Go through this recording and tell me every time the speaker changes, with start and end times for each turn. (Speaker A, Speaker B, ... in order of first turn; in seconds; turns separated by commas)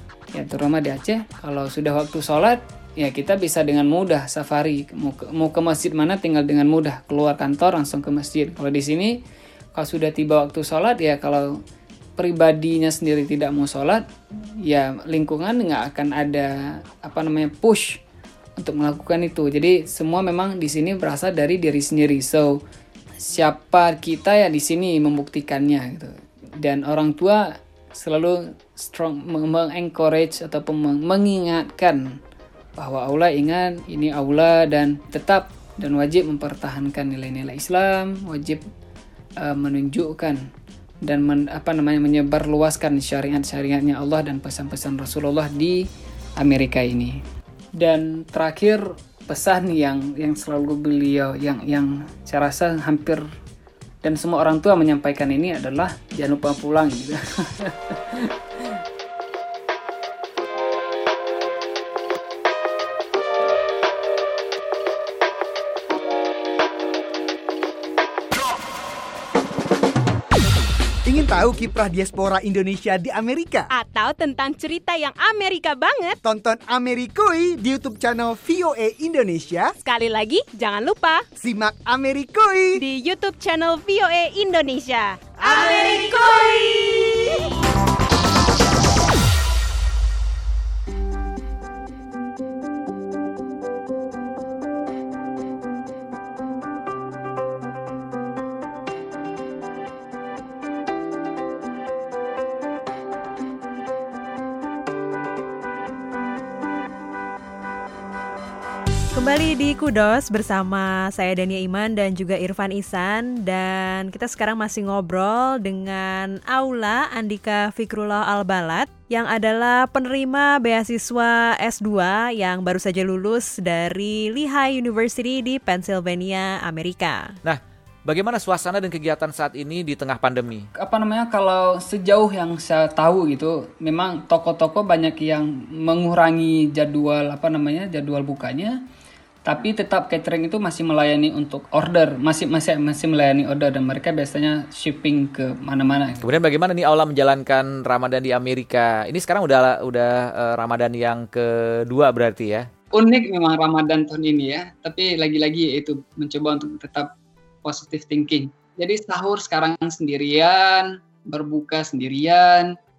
Speaker A: 0.3-9.2, Speaker A: 9.7-11.6, Speaker A: 12.2-14.0, Speaker A: 14.6-18.0, Speaker A: 18.6-22.6, Speaker A: 23.2-32.2, Speaker A: 32.8-38.7, Speaker A: 39.4-40.5, Speaker A: 41.0-45.9, Speaker A: 46.4-47.2, Speaker A: 47.8-53.2, Speaker A: 54.0-58.8, Speaker B: 71.0-73.7, Speaker C: 73.7-76.2, Speaker B: 76.2-79.7, Speaker C: 79.8-81.2, Speaker B: 81.4-82.8, Speaker C: 82.8-87.5, Speaker B: 85.5-85.9, Speaker D: 109.1-127.4, Speaker E: 127.4-130.7, Speaker A: 130.8-138.8, Speaker A: 139.4-146.3, Speaker E: 146.2-152.7, Speaker A: 152.9-157.1, Speaker A: 157.6-162.8